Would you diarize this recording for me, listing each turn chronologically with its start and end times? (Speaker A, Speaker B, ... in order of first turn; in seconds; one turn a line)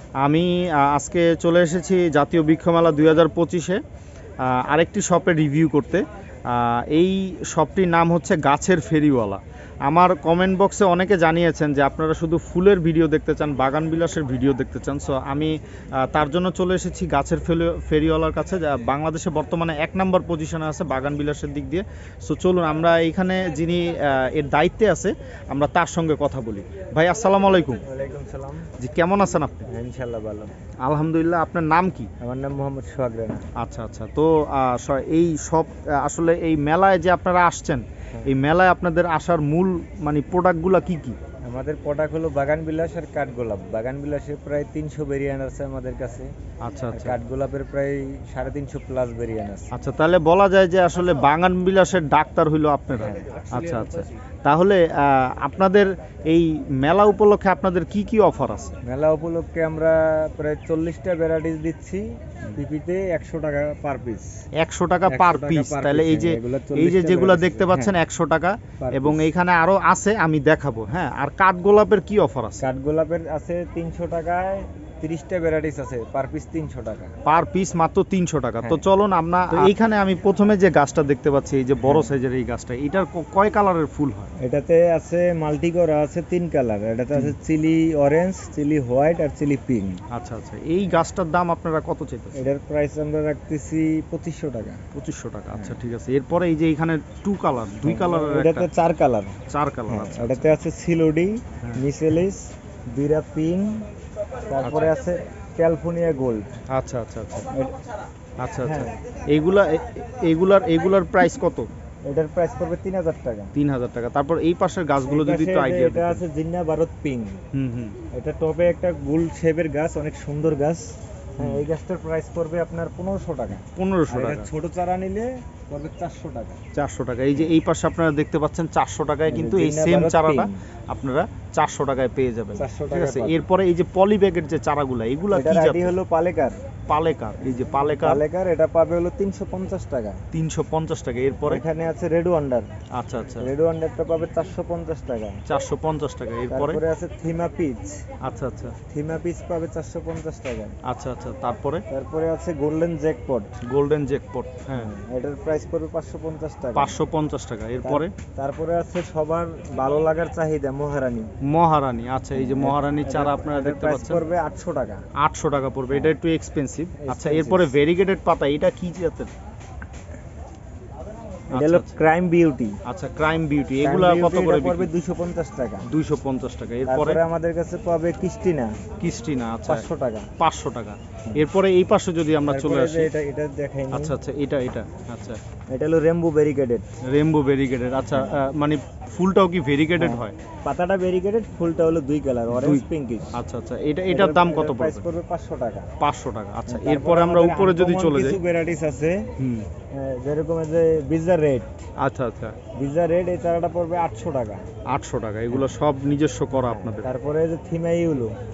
Speaker A: 0.2-3.8
Speaker A: 4.4-27.8
Speaker B: 27.8-28.7
Speaker A: 28.8-29.7
Speaker B: 29.7-30.5
Speaker A: 30.8-32.1
Speaker B: 32.2-33.5
Speaker A: 33.6-41.2
Speaker B: 41.4-46.3
Speaker A: 46.6-47.2
Speaker B: 46.9-49.7
Speaker A: 49.7-58.8
Speaker B: 58.8-64.3
Speaker A: 64.6-72.7
Speaker B: 65.1-68.0
Speaker B: 68.8-69.3
Speaker B: 72.6-77.1
Speaker A: 77.2-84.3
Speaker B: 84.4-90.0
Speaker A: 90.1-92.4
Speaker B: 92.3-94.8
Speaker A: 94.9-98.7
Speaker B: 97.8-99.4
Speaker A: 99.5-100.6
Speaker B: 99.9-103.9
Speaker B: 104.5-106.6
Speaker A: 104.6-104.9
Speaker A: 106.7-107.5
Speaker A: 108.4-111.7
Speaker B: 108.6-109.0
Speaker B: 112.1-113.5
Speaker A: 113.5-116.2
Speaker B: 115.0-117.4
Speaker A: 117.5-118.0
Speaker B: 118.1-126.6
Speaker A: 123.8-124.5
Speaker A: 126.7-135.9
Speaker B: 129.3-130.6
Speaker B: 132.6-133.4
Speaker B: 135.3-136.6
Speaker A: 136.9-138.2
Speaker B: 138.0-140.2
Speaker A: 140.3-141.6
Speaker B: 141.4-142.7
Speaker A: 142.9-143.5
Speaker B: 143.4-145.4
Speaker A: 145.5-146.8
Speaker B: 146.5-148.0
Speaker A: 148.2-148.8
Speaker B: 148.9-150.8
Speaker A: 150.8-151.8
Speaker B: 151.9-153.6
Speaker A: 153.6-154.9
Speaker B: 154.8-157.0
Speaker A: 156.8-158.1
Speaker B: 157.8-161.3
Speaker A: 161.4-164.2
Speaker B: 162.3-165.1
Speaker A: 165.2-169.3
Speaker B: 167.0-167.8
Speaker A: 171.5-171.9
Speaker B: 171.5-172.8
Speaker A: 172.8-174.9
Speaker B: 173.8-175.9
Speaker A: 175.9-177.2
Speaker B: 176.8-178.8
Speaker A: 179.0-179.9
Speaker B: 179.7-180.3
Speaker A: 180.4-183.1
Speaker B: 182.5-184.2
Speaker A: 183.9-185.4
Speaker B: 185.7-187.0
Speaker A: 187.0-190.4
Speaker B: 190.0-193.4
Speaker A: 192.5-195.1
Speaker B: 194.1-195.9
Speaker A: 196.0-198.4
Speaker B: 196.7-199.3
Speaker A: 199.4-199.7
Speaker B: 199.9-201.8
Speaker A: 202.0-202.6
Speaker B: 202.8-204.7
Speaker A: 204.9-207.1
Speaker B: 206.6-208.3